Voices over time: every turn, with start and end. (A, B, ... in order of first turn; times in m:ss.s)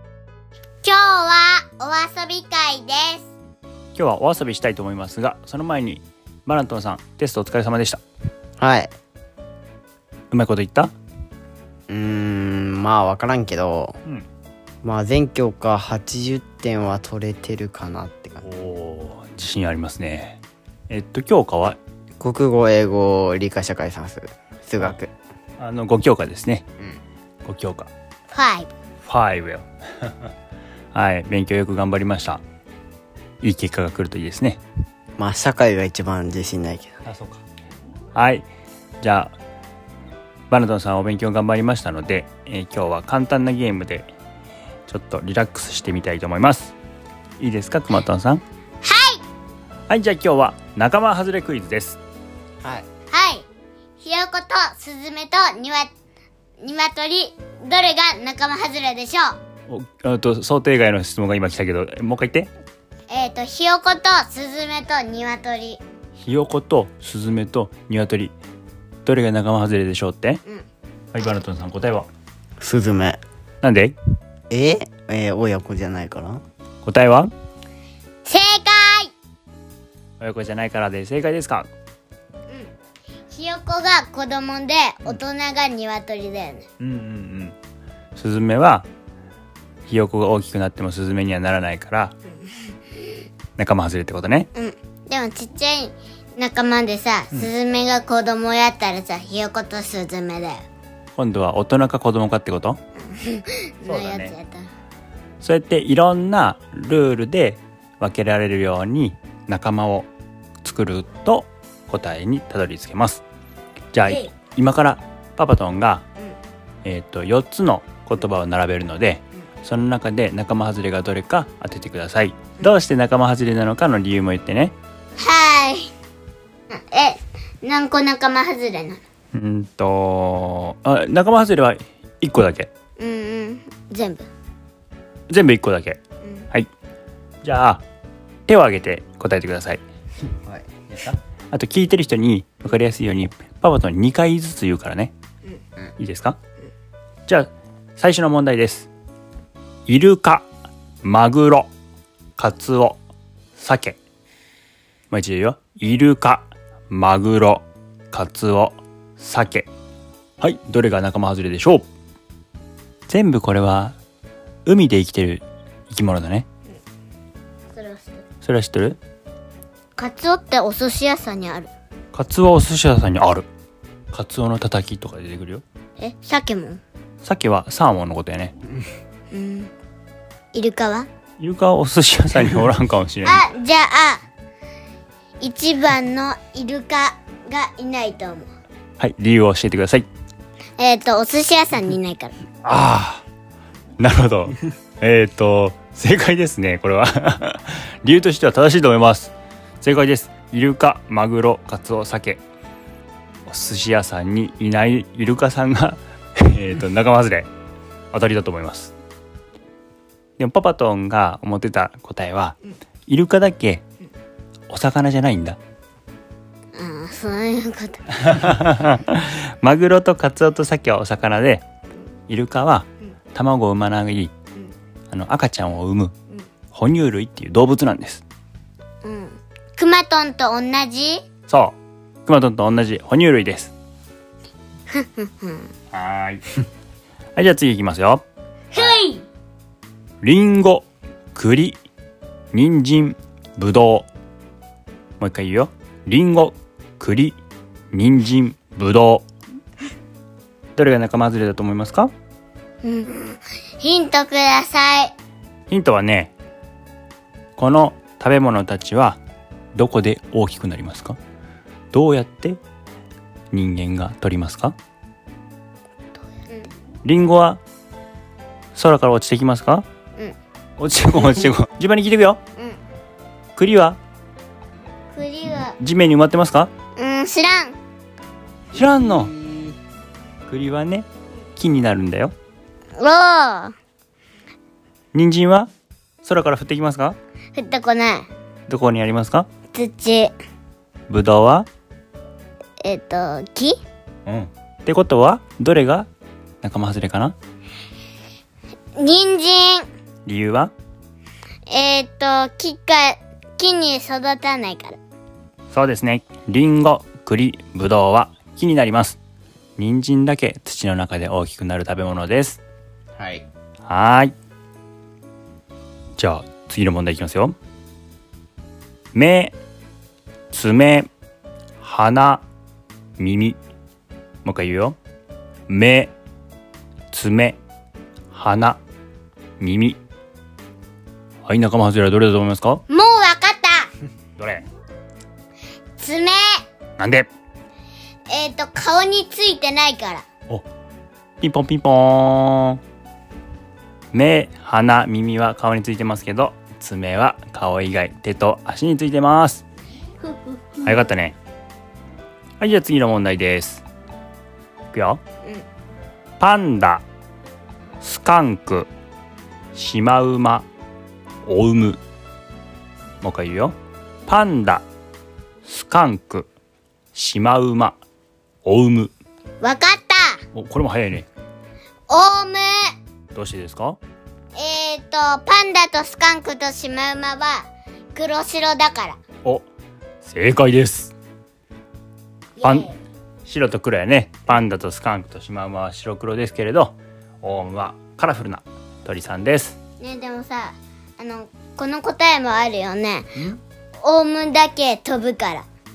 0:00.8-0:03.3 A
0:04.0-0:08.0 B
0:08.6-0:08.9 C
0:10.3-0:10.9 B
0:11.9-0:14.0 C
0:14.8-0:18.4 C
0:18.4-0:20.4 B
0:20.9-0:21.8 B
0:22.2-0:25.1 C
0:25.6-0:26.6 B
0:27.4-0:27.9 B
0:28.3-0:28.7 A
0:29.0-0:30.1 B
0:30.9-0:32.4 B
0:33.4-0:34.6 B
0:35.2-0:37.0 C
0:37.0-0:37.4 B
0:38.2-0:38.5 B
0:39.0-0:39.4 B
0:40.5-0:44.1 B
0:44.9-0:46.8 B
0:47.4-0:48.4 B
0:48.8-0:49.2 A
0:49.9-0:52.0 B
0:53.1-0:53.5 A
0:54.0-0:55.9 A
0:56.6-0:59.4 A
0:59.7-1:02.5 B
1:03.1-1:05.8 A
1:06.2-1:08.4 B
1:09.0-1:10.4 B
1:11.1-1:12.1 B
1:12.6-1:13.2 C
1:13.6-1:14.0 B
1:14.5-1:16.4 C
1:16.8-1:17.3 B
1:18.2-1:19.1 A
1:20.2-1:21.7 B
1:23.3-1:26.6 A
1:26.8-1:27.6 B
1:28.2-1:28.9 B
1:29.9-1:32.2 B
1:33.6-1:34.5 B
1:34.6-1:40.6 A
1:41.2-1:42.8 B
1:43.0-1:44.7 A
1:43.8-1:44.3 B
1:45.4-1:50.1 B
1:50.6-1:53.2 B
1:53.9-1:56.0 B
1:54.0-1:54.3 A
1:56.8-2:04.8 B
2:05.2-2:05.9 A
2:06.7-2:09.0 A
2:09.3-2:12.7 B
2:13.0-2:14.3 A
2:15.3-2:16.0 B
2:17.4-2:17.8 B
2:18.5-2:19.8 B
2:20.9-2:25.1 B
2:26.0-2:26.4 B
2:27.3-2:28.9 B
2:29.9-2:30.5 B
2:31.0-2:31.7 B
2:32.4-2:33.0 B
2:33.6-2:34.0 B
2:35.1-2:39.7 B
2:40.4-2:41.9 B
2:43.1-2:44.0 B
2:44.7-2:46.5 B
2:47.7-2:48.2 A
2:48.4-2:49.0 B
2:50.0-2:51.7 A
2:52.1-2:53.5 B
2:54.1-2:55.6 B
2:56.0-2:56.8 A
2:57.2-2:58.6 B
2:59.3-2:59.7 A
3:00.5-3:01.1 A
3:01.4-3:03.4 B
3:03.2-3:04.2 A
3:05.4-3:08.5 A
3:09.0-3:10.1 B
3:10.8-3:12.4 A
3:12.6-3:13.2 B
3:14.0-3:22.4 B
3:23.5-3:27.5 B
3:28.1-3:28.9 B
3:30.4-3:33.8 B
3:34.7-3:35.6 B
3:36.7-3:38.1 A
3:38.2-3:41.6 B
3:42.3-3:44.3 B
3:45.1-3:46.1 B
3:46.7-3:48.2 B
3:49.0-3:51.2 A
3:51.5-3:53.7 B
3:54.9-3:55.7 A
3:55.9-3:56.4 B
3:57.4-3:58.2 B
3:58.7-3:59.2 A
4:00.2-4:01.8 B
4:02.5-4:04.1 B
4:05.2-4:07.4 B
4:07.9-4:09.3 B
4:10.8-4:12.1 B
4:12.8-4:15.1 A
4:15.7-4:16.3 B
4:17.6-4:19.2 B
4:19.8-4:21.2 B
4:21.9-4:22.6 B
4:23.5-4:24.8 B
4:27.0-4:27.6 B
4:28.8-4:29.9 B
4:30.8-4:32.4 B
4:33.6-4:34.0 B
4:35.1-4:35.8 A
4:35.8-4:36.7 B
4:37.0-4:37.8 A
4:38.7-4:39.3 B
4:40.5-4:42.3 B
4:43.0-4:43.8 A
4:45.1-4:45.7 B
4:46.2-4:47.2 B
4:47.6-4:48.3 A
4:48.7-4:49.5 B
4:49.7-4:50.3 A
4:51.1-4:51.7 B
4:52.8-4:53.8 A
4:54.3-4:56.1 B
4:56.6-4:57.4 B
4:59.0-4:59.9 A
5:00.3-5:00.7 B
5:01.7-5:05.0 A
5:05.7-5:09.2 B
5:09.8-5:12.6 B
5:13.2-5:13.5 C
5:13.8-5:14.3 B
5:16.2-5:17.6 B
5:19.1-5:19.6 B
5:20.5-5:21.1 B
5:21.8-5:22.4 B
5:23.2-5:23.6 B
5:24.4-5:25.0 B
5:25.7-5:26.1 B
5:27.1-5:27.6 B
5:28.3-5:28.8 B
5:29.6-5:30.0 B
5:31.4-5:32.8 B
5:32.9-5:33.9 A
5:34.4-5:34.7 B
5:36.0-5:36.6 A
5:37.0-5:37.3 B
5:38.3-5:40.2 A
5:41.4-5:42.8 B
5:44.1-5:49.6 B
5:50.2-5:51.1 A
5:50.8-5:51.4 B
5:52.6-5:53.8 B
5:54.9-5:55.2 B
5:56.4-5:57.0 B
5:58.0-5:58.9 B
5:59.8-6:00.7 B
6:01.4-6:02.0 B
6:03.2-6:03.8 B
6:04.3-6:04.8 B
6:05.6-6:06.5 B
6:07.1-6:08.0 B
6:08.6-6:09.1 B
6:09.6-6:10.4 A
6:10.5-6:11.3 B
6:12.1-6:12.9 A
6:13.3-6:14.0 B
6:14.6-6:19.2 A
6:20.2-6:21.1 B
6:22.6-6:23.0 A
6:22.6-6:22.9 B
6:23.4-6:29.8 B
6:30.0-6:33.3 A
6:34.0-6:35.7 A